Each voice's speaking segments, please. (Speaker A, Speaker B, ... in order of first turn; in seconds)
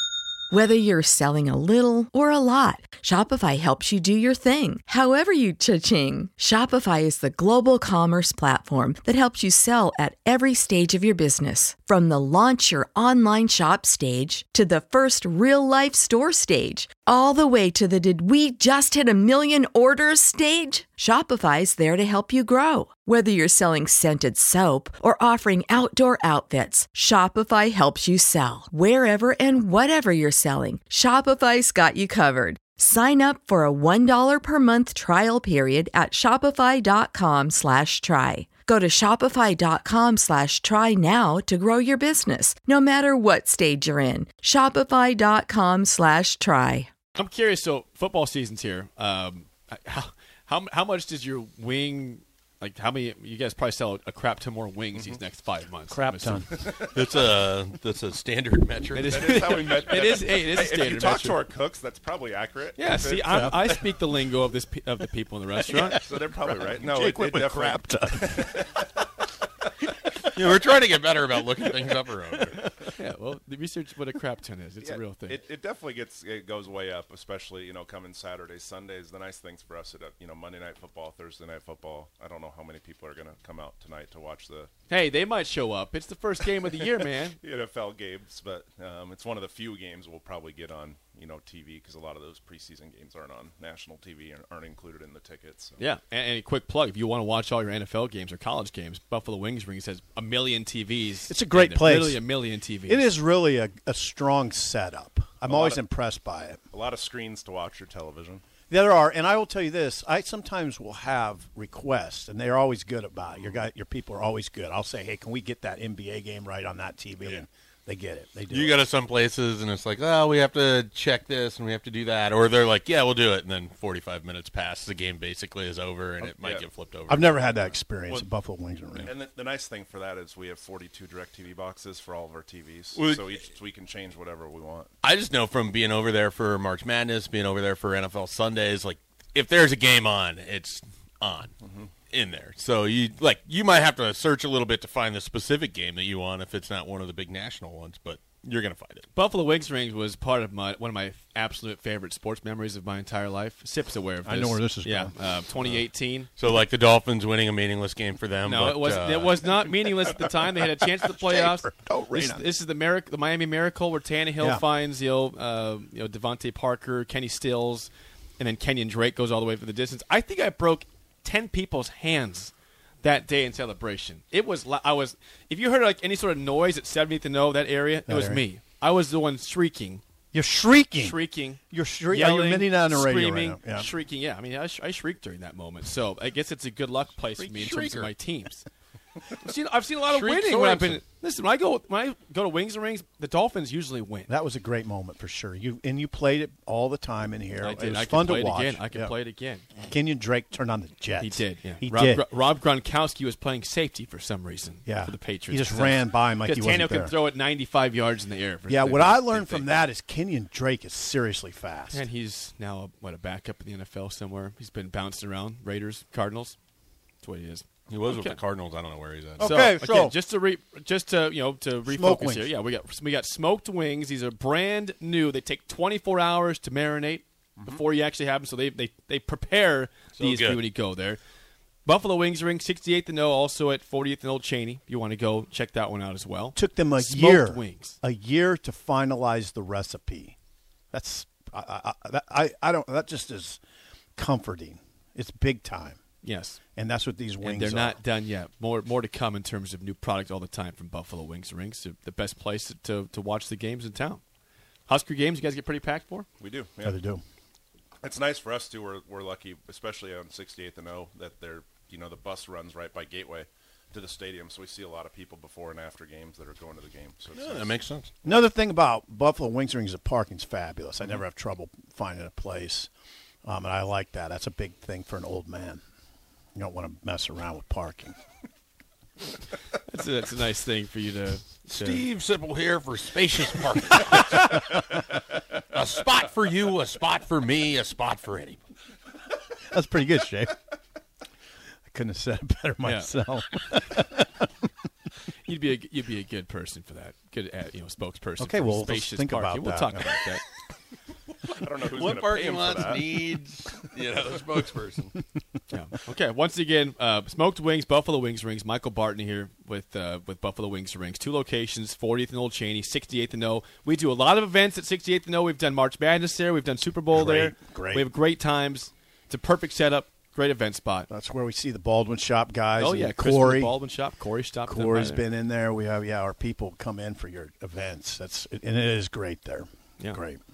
Speaker A: 0.5-46.9
Speaker B: 47.1-56.4, 58.9-61.4, 62.8-66.0, 73.0-75.4, 84.9-87.4, 95.8-103.1, 149.1-156.3, 158.4-180.0, 181.0-188.7, 189.3-194.3, 197.6-199.7, 201.2-209.8, 211.9-216.6, 217.2-218.4, 219.4-231.2, 231.8-238.0, 246.2-246.6, 247.4-254.2, 254.9-256.3, 279.7-282.0, 292.8-293.1, 295.4-300.4, 305.7-321.1, 322.8-325.2
Speaker C: 54.9-55.2, 56.5-57.3, 59.0-63.9, 65.6-68.8, 74.8-84.7, 87.4-95.8, 105.5-105.8, 106.7-108.4, 113.3-113.6, 126.2-126.7, 127.5-128.3, 129.0-134.9, 141.6-141.9, 256.4-257.0, 258.0-267.8, 301.6-303.3
Speaker D: 55.9-56.5, 63.3-63.6, 66.7-68.5, 101.3-102.3, 102.8-106.6, 108.7-118.8, 127.1-129.1, 154.2-155.1, 161.0-162.5, 164.4-164.6, 178.1-178.4, 180.3-181.2, 181.7-183.9, 194.3-199.1, 199.8-202.3, 204.8-207.1, 208.7-212.0, 219.4-220.2, 221.8-222.5, 236.5-240.3, 240.9-243.6, 244.2-246.0, 246.8-248.0, 256.8-257.2, 268.2-272.9, 273.4-275.8, 276.6-278.1, 289.7-290.6, 291.9-294.4, 298.4-300.2, 317.1-318.1, 321.1-323.8, 324.6-330.4
Speaker E: 56.9-59.2, 70.3-72.6, 118.5-127.4, 132.9-133.4, 135.0-141.5, 142.1-149.1, 156.3-159.4, 187.4-188.1, 190.1-191.0, 217.9-219.5, 230.2-230.6, 267.3-268.1, 281.7-284.9, 285.6-288.6, 301.8-305.1